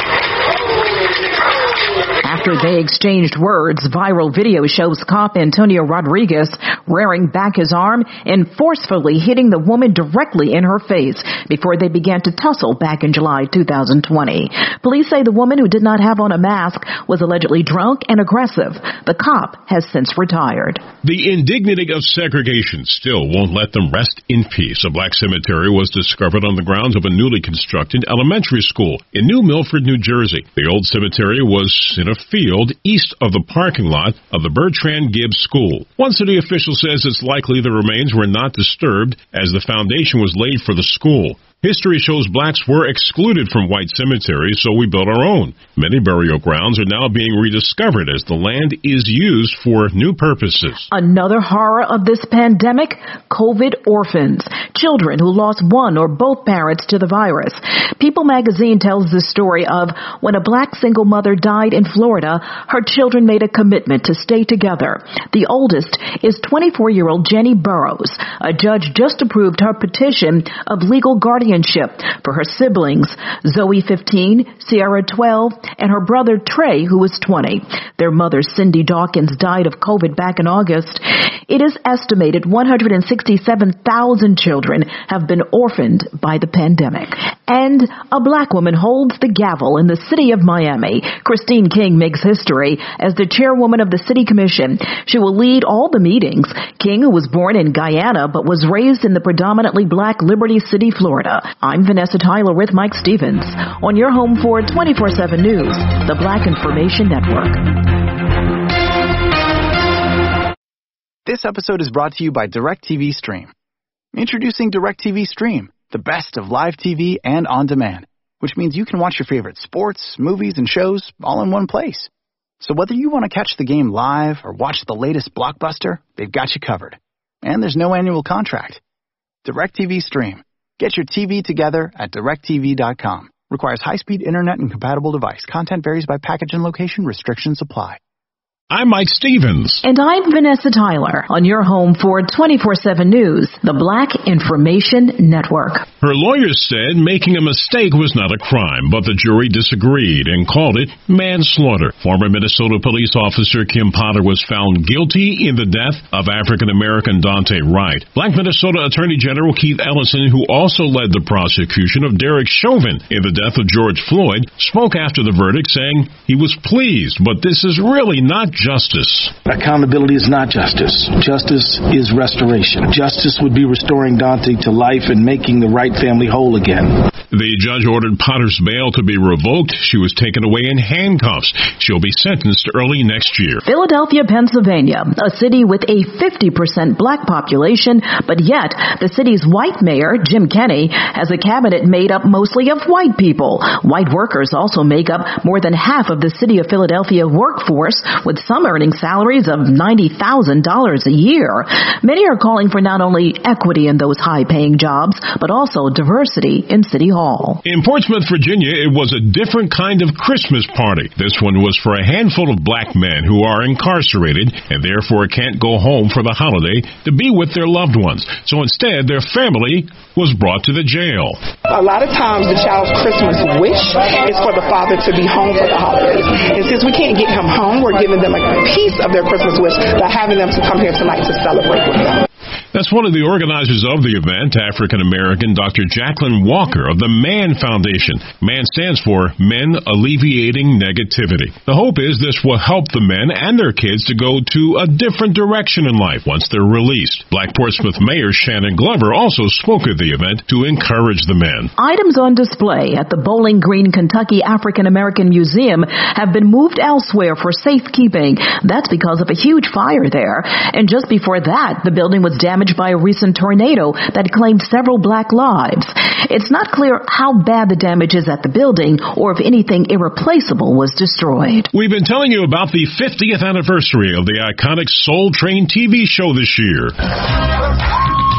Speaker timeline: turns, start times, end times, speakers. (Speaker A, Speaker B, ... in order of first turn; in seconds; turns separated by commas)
Speaker A: 2.2-20.8, Speaker B: 21.0-50.9, Speaker A: 50.9-107.7, Speaker C: 111.2-113.5, Speaker C: 114.1-128.8, Speaker C: 129.4-138.0, Speaker B: 138.7-139.8, Speaker A: 139.8-145.8, Speaker B: 146.0-169.3, Speaker D: 169.4-177.0, Speaker B: 177.3-183.6, Speaker A: 183.7-207.6, Speaker B: 207.6-221.4, Speaker E: 221.7-232.2, Speaker B: 232.7-251.7, Speaker A: 251.8-271.7, Speaker B: 271.7-276.9